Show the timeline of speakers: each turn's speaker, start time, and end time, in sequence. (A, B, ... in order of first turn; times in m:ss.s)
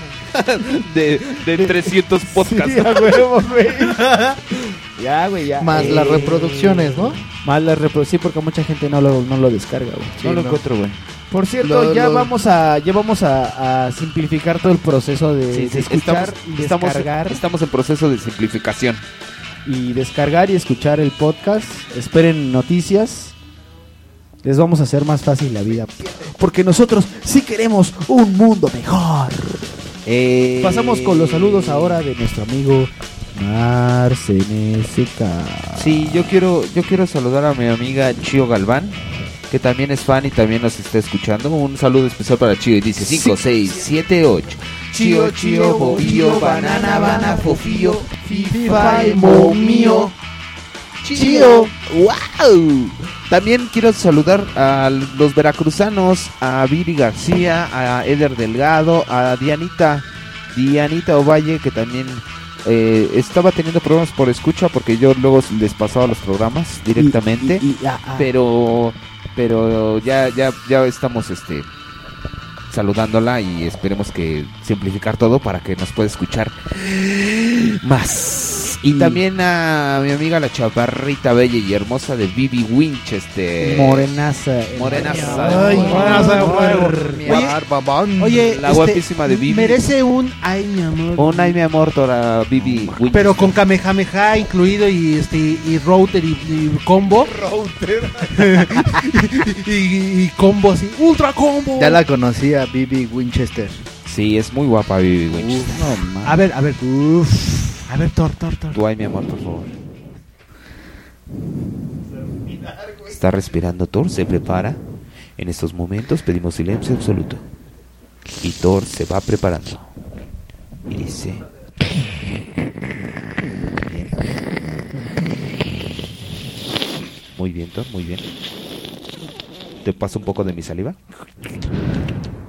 0:00.3-0:03.2 A
0:01.5-0:04.2 B
0:04.0-0:04.4 C
0:05.0-0:10.3 B
0:05.6-0:07.2 D
0:10.2-0:10.6 D
0:10.2-0:11.0 A
0:11.3-0:17.4 B
0:11.6-0:12.3 D
0:15.5-0:19.0 A
0:19.6-0:23.3 B
0:24.4-0:29.6 B
0:30.0-0:32.0 A
0:30.6-0:35.8 B
0:35.7-0:39.0 A
0:39.5-0:50.0 A
0:43.0-0:43.8 B
0:44.9-0:50.1 B
0:46.1-0:47.0 C
0:48.5-0:50.1 C
0:51.1-0:51.7 B
0:51.1-1:07.6 A
1:07.0-1:08.3 B
1:08.2-1:11.7 A
1:12.7-1:24.1 A
1:18.8-1:19.2 B
1:23.6-1:27.1 B
1:24.7-1:27.5 A
1:25.2-1:27.6 C
1:25.4-1:28.5 D
1:28.2-1:31.6 C
1:28.4-1:29.8 A
1:31.2-1:33.5 A
1:33.1-1:37.3 C
1:38.4-1:42.0 C
1:41.8-1:43.8 D
1:44.0-1:46.0 A
1:45.3-1:47.8 B
1:46.2-1:46.8 C
1:47.9-1:48.8 C
1:48.7-1:49.7 A
1:53.0-1:54.8 A
1:55.4-1:57.4 A
1:58.4-1:59.9 A
2:00.9-2:01.4 A
2:03.8-2:04.4 A
2:07.3-2:08.3 A
2:09.8-2:11.0 A